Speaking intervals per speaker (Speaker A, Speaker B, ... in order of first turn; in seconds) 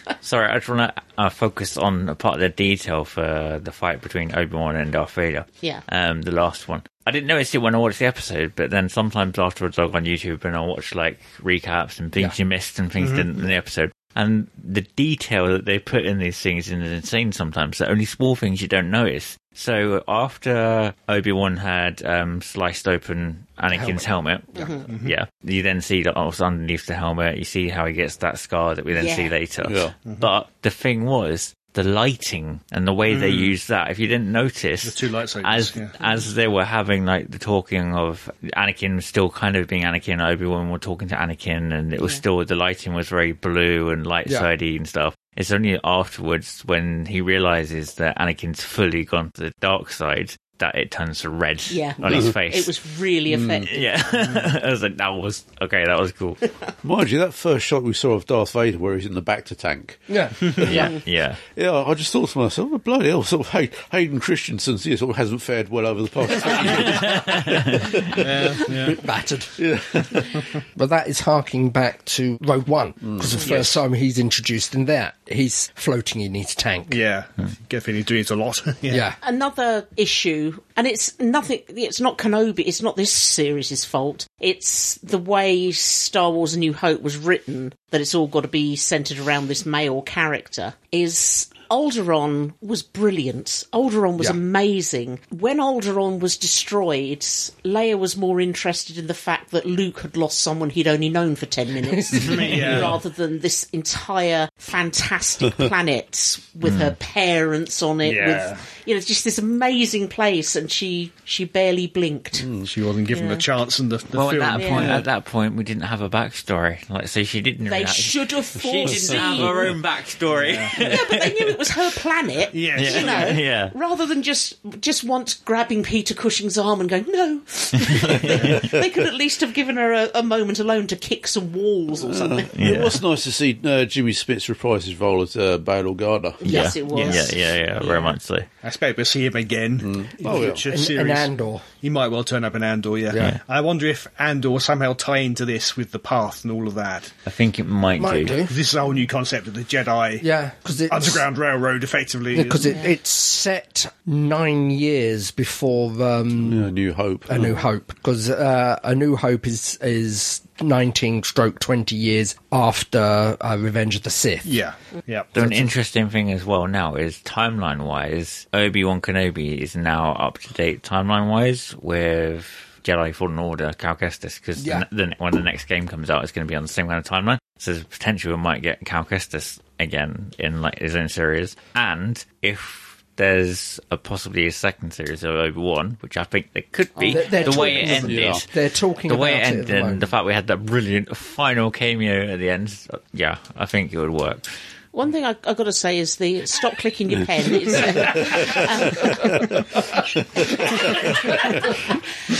Speaker A: 0.2-52.7, 53.6-56.4, 60.6-61.4, 106.6-106.9, 114.1-121.5, 122.7-123.7, 127.9-128.6, 132.5-133.0, 136.4-138.4, 147.2-148.4, 165.3-188.4, 189.1-194.5
Speaker B: 13.0-13.3, 24.9-25.1, 33.1-33.5, 34.8-35.9, 68.2-69.0, 73.4-73.8, 76.9-79.0, 102.2-103.0, 108.0-108.6, 112.7-115.0, 120.3-120.8, 122.5-123.4, 136.9-138.0, 138.6-147.1, 148.4-150.2, 150.9-152.7, 164.4-165.3
Speaker C: 23.7-24.0, 60.1-60.9, 68.7-69.5, 70.7-77.0, 78.9-79.2, 101.9-102.8, 140.3-141.7, 143.1-143.4, 148.0-148.6, 150.2-151.2, 152.3-156.7, 157.3-164.6, 165.3-165.7, 174.6-174.8, 187.1-190.1, 200.7-201.5
Speaker D: 24.5-24.9, 28.9-29.3, 51.7-53.8, 60.7-61.0, 79.2-112.5, 113.1-113.5, 114.5-115.0, 117.7-119.8, 120.7-132.5, 136.4-138.0, 152.7-152.9, 186.9-188.0, 194.9-199.7, 200.5-201.9
Speaker E: 29.6-29.9, 53.3-53.7, 56.8-68.5, 69.6-70.3, 112.4-112.7, 118.8-119.5, 132.0-136.5, 139.8-140.6, 156.4-157.6, 188.0-188.4